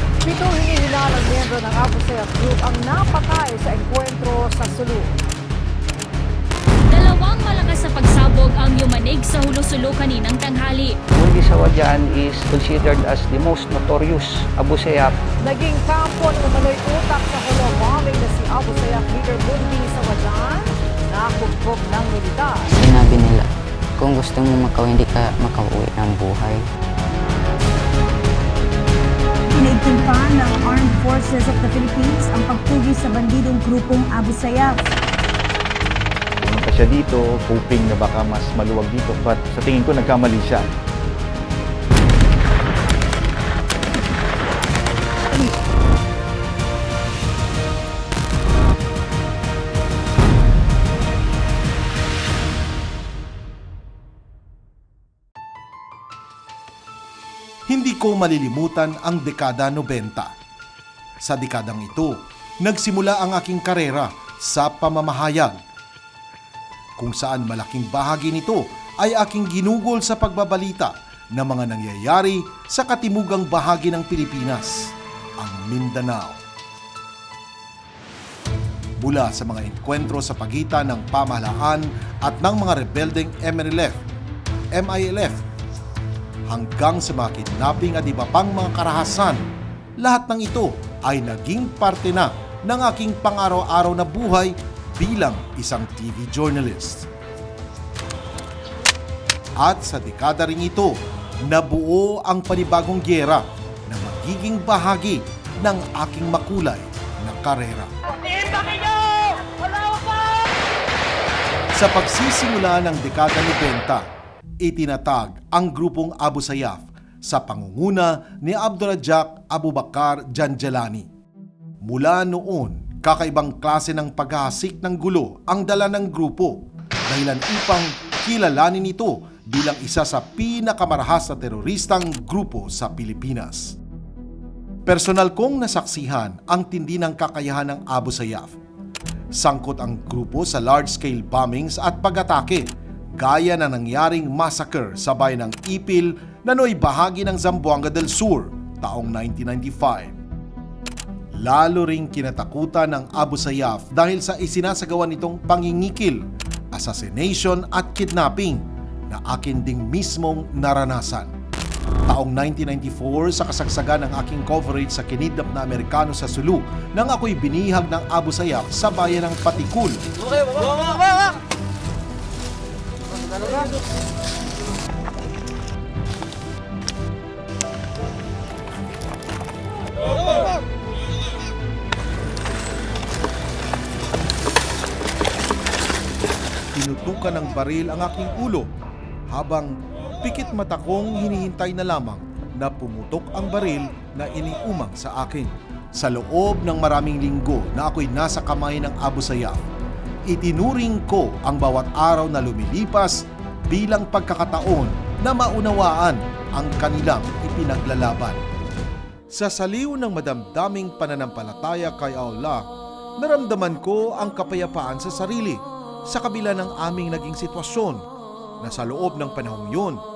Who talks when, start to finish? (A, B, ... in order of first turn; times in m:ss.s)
0:00.2-0:05.2 A
0:06.9-0:11.0 B
0:11.1-0:15.1 C
0:15.4-0:22.8 A
0:22.7-0:26.6 D
0:29.5-0:34.7 E
0:30.1-0:33.9 F
0:36.4-0:40.7 F
0:57.7-1:00.3 G
1:01.2-1:05.6 G
1:07.0-1:16.4 G
1:19.0-1:24.0 G
1:24.7-1:25.4 G
1:26.5-1:29.4 G
1:30.0-1:37.1 G
1:39.6-1:47.9 G
1:48.2-1:50.3 A
1:51.7-1:54.0 G
1:54.6-2:01.1 G
2:01.8-2:13.8 G
2:14.8-2:18.5 G
2:19.3-2:30.1 G
2:31.3-2:41.3 G
2:42.1-2:50.0 G
3:06.7-3:08.7 G
3:09.3-3:19.6 G
3:20.3-3:28.4 G
3:29.3-3:38.0 G
3:38.6-3:40.0 G